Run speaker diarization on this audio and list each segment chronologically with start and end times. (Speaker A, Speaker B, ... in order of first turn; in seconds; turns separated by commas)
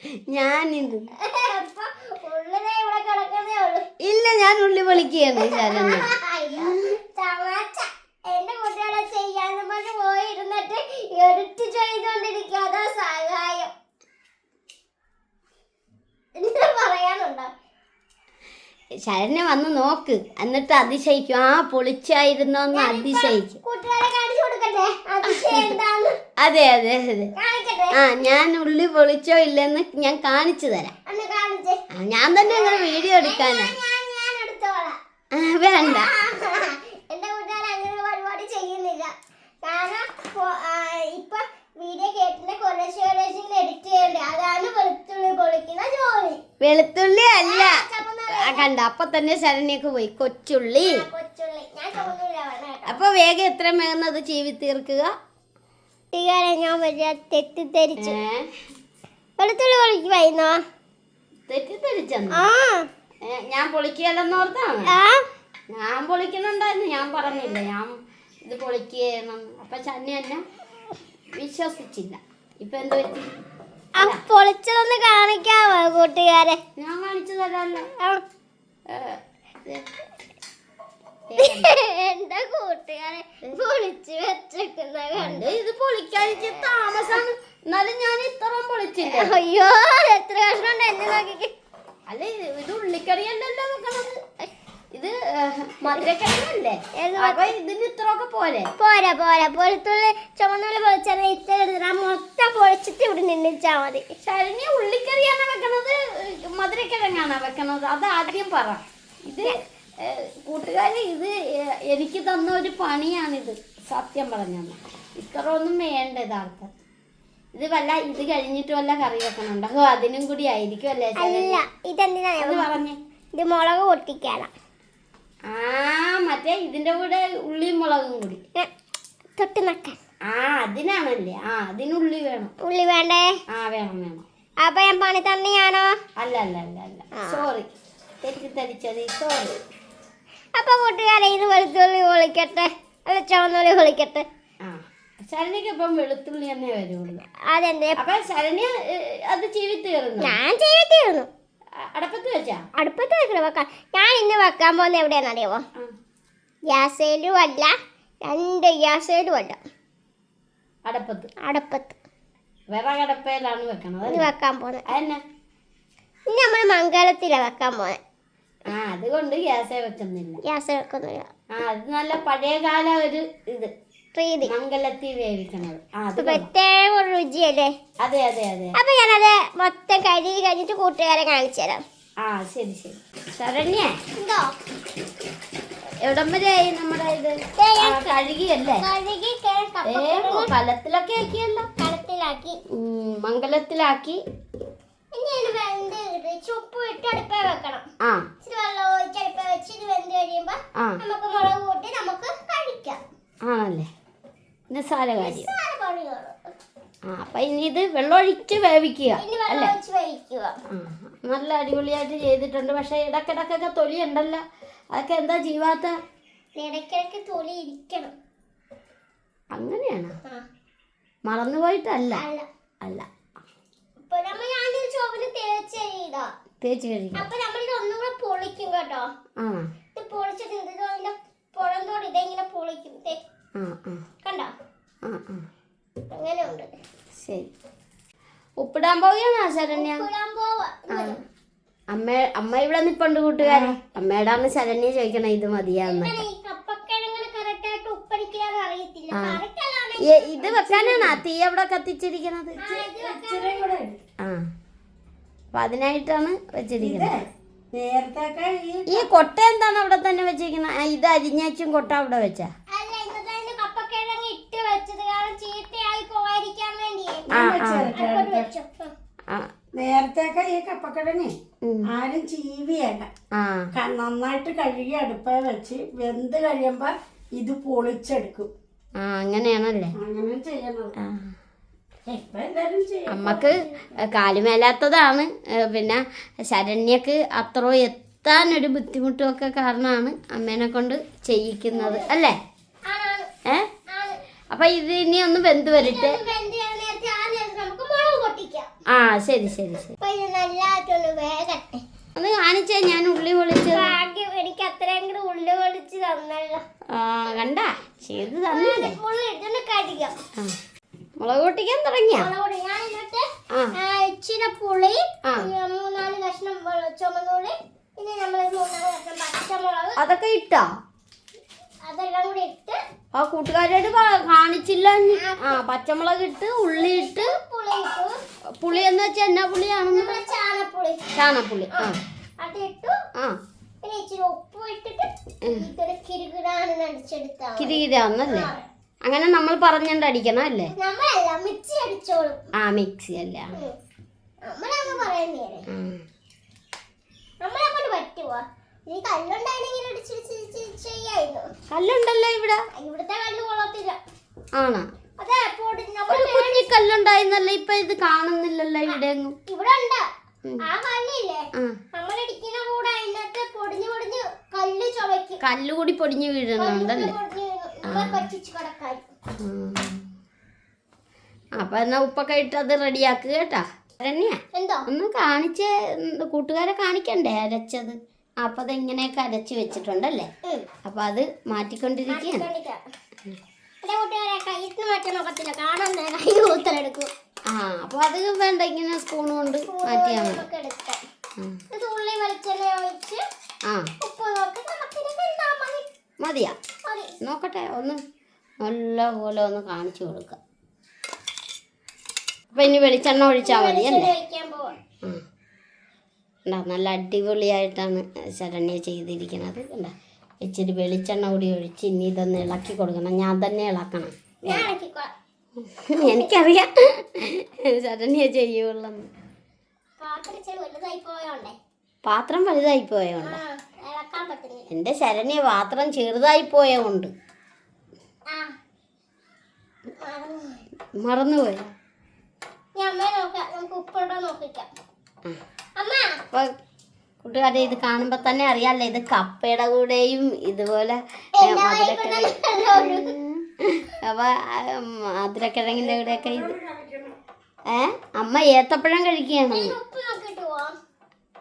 Speaker A: 0.3-1.1, Speaker B: 1.2-3.9, Speaker A: 4.0-7.0, Speaker B: 5.3-13.7, Speaker B: 16.4-17.5, Speaker A: 19.0-23.6, Speaker B: 22.7-26.2, Speaker A: 25.3-25.7, Speaker A: 26.4-27.3, Speaker B: 27.4-28.2, Speaker A: 27.9-30.9, Speaker B: 31.1-31.8, Speaker A: 31.9-33.7, Speaker B: 32.4-35.0, Speaker A: 35.3-36.1, Speaker B: 35.8-46.4, Speaker A: 46.6-47.8, Speaker B: 47.4-48.7, Speaker A: 48.3-51.0, Speaker B: 50.8-53.0, Speaker A: 52.9-55.1, Speaker B: 56.1-58.2, Speaker A: 58.0-58.5, Speaker B: 59.4-60.6, Speaker A: 61.5-62.4, Speaker B: 62.3-62.9, Speaker A: 63.2-64.9, Speaker B: 64.8-65.2, Speaker A: 65.7-70.4, Speaker A: 71.3-73.3, Speaker B: 74.0-76.6, Speaker A: 76.8-77.9, Speaker B: 77.9-78.2, Speaker A: 78.9-79.8, Speaker A: 81.3-81.7, Speaker B: 81.4-85.5, Speaker A: 85.2-89.3, Speaker B: 89.0-91.5, Speaker A: 92.1-94.2, Speaker A: 94.9-98.7, Speaker B: 96.9-97.4, Speaker B: 98.8-104.0, Speaker A: 104.2-116.7, Speaker A: 117.5-121.6, Speaker B: 121.2-122.7, Speaker A: 122.4-123.0, Speaker B: 123.3-124.5, Speaker A: 125.5-128.4, Speaker B: 129.4-130.0, Speaker A: 130.3-132.5, Speaker B: 132.6-133.3, Speaker A: 133.5-134.2, Speaker B: 134.6-136.0, Speaker A: 136.2-137.7, Speaker B: 137.2-137.4, Speaker A: 138.2-139.6, Speaker B: 140.6-144.3, Speaker A: 144.6-147.2, Speaker B: 147.3-148.0, Speaker A: 148.0-150.4, Speaker B: 150.2-151.3, Speaker A: 151.8-152.6, Speaker B: 152.8-155.6, Speaker B: 156.7-157.7, Speaker B: 158.2-159.6, Speaker A: 160.8-161.3, Speaker B: 161.4-162.0, Speaker A: 162.7-164.3, Speaker B: 164.1-164.8, Speaker A: 164.9-165.2, Speaker B: 166.3-168.0, Speaker A: 168.7-170.4, Speaker B: 170.4-171.3, Speaker A: 171.5-173.7, Speaker B: 174.1-174.5, Speaker A: 174.4-176.5, Speaker B: 176.2-177.7, Speaker A: 178.0-178.7, Speaker B: 178.7-181.8, Speaker A: 182.2-184.0, Speaker B: 184.2-184.5, Speaker A: 186.0-188.8, Speaker B: 187.6-188.1, Speaker B: 188.8-190.5, Speaker A: 189.8-191.7, Speaker B: 191.8-192.6, Speaker A: 192.7-194.2, Speaker B: 195.1-197.9, Speaker A: 198.0-198.3, Speaker B: 198.4-203.0, Speaker A: 203.4-203.9, Speaker A: 204.7-205.5, Speaker B: 205.2-206.4, Speaker A: 207.0-209.7, Speaker B: 209.2-210.6, Speaker A: 210.7-216.0, Speaker B: 216.6-218.1, Speaker A: 219.5-220.2, Speaker A: 221.2-222.2, Speaker B: 222.1-222.4, Speaker B: 224.0-226.3, Speaker A: 226.6-227.2, Speaker B: 227.2-229.1, Speaker A: 229.4-229.7, Speaker B: 229.9-233.2, Speaker A: 233.6-234.0, Speaker B: 234.2-234.5, Speaker A: 235.0-235.4, Speaker B: 236.1-236.7, Speaker A: 237.2-237.5, Speaker A: 238.6-240.1, Speaker B: 239.7-241.2, Speaker A: 240.9-241.2, Speaker A: 241.9-246.2, Speaker C: 243.4-243.8, Speaker B: 245.8-251.2, Speaker A: 249.1-249.4, Speaker A: 250.0-252.7, Speaker B: 252.6-253.6, Speaker C: 252.7-254.0, Speaker A: 254.2-254.5, Speaker A: 255.5-257.1, Speaker C: 256.8-259.0, Speaker A: 258.9-262.5, Speaker B: 262.7-267.3, Speaker C: 267.3-268.5, Speaker A: 267.3-267.9, Speaker B: 267.9-268.9, Speaker C: 269.7-273.1, Speaker A: 271.6-271.9, Speaker A: 273.3-273.7, Speaker C: 273.7-278.5, Speaker A: 279.0-279.9, Speaker C: 279.9-280.9, Speaker A: 281.0-281.3, Speaker C: 282.1-283.5, Speaker A: 283.1-292.4, Speaker B: 291.7-292.1, Speaker B: 292.9-293.3, Speaker B: 293.9-294.2, Speaker A: 294.5-296.2, Speaker B: 295.8-298.7, Speaker A: 298.9-299.9, Speaker B: 300.0-301.8, Speaker A: 302.1-303.9, Speaker B: 303.7-306.6, Speaker A: 306.9-308.9, Speaker B: 308.5-310.1, Speaker A: 311.2-312.3, Speaker B: 312.1-320.0, Speaker A: 313.5-313.8, Speaker A: 315.2-315.5, Speaker A: 320.0-320.7, Speaker B: 321.8-322.8, Speaker A: 323.1-327.4, Speaker B: 325.1-325.6, Speaker B: 326.8-328.2, Speaker A: 328.6-330.2, Speaker B: 329.9-331.1, Speaker A: 331.1-331.9, Speaker B: 331.7-333.0, Speaker B: 333.8-338.6, Speaker A: 337.6-338.5, Speaker A: 339.0-340.7, Speaker B: 340.7-342.4, Speaker A: 342.6-343.6, Speaker B: 344.4-345.7, Speaker A: 345.7-346.0, Speaker B: 347.4-351.5, Speaker A: 351.7-352.6, Speaker B: 352.7-354.0, Speaker A: 354.5-354.9, Speaker B: 355.2-356.7, Speaker A: 356.1-359.4, Speaker B: 358.9-360.1, Speaker B: 360.6-365.4, Speaker A: 365.4-367.1, Speaker B: 366.6-369.1, Speaker A: 367.9-368.3, Speaker A: 369.4-370.1, Speaker A: 371.6-380.3, Speaker B: 374.5-374.9, Speaker A: 380.8-382.4, Speaker B: 382.1-382.8, Speaker B: 383.8-387.1, Speaker A: 387.5-390.4, Speaker B: 389.7-391.0, Speaker B: 391.7-393.2, Speaker B: 394.0-395.9, Speaker A: 396.2-396.5, Speaker B: 396.8-397.1, Speaker A: 397.2-398.0, Speaker A: 398.6-400.4, Speaker A: 402.5-404.1, Speaker B: 403.4-404.8, Speaker A: 406.4-414.7, Speaker B: 414.4-415.1, Speaker A: 415.6-419.1, Speaker B: 416.0-416.3, Speaker B: 420.0-421.6, Speaker A: 422.1-423.4, Speaker B: 423.2-424.6, Speaker A: 424.7-427.1, Speaker B: 430.0-430.6, Speaker A: 431.0-431.7, Speaker B: 432.8-434.7, Speaker B: 435.8-436.2, Speaker A: 437.2-446.6, Speaker B: 441.4-443.1, Speaker C: 445.8-447.2, Speaker A: 447.7-449.7, Speaker B: 449.5-450.8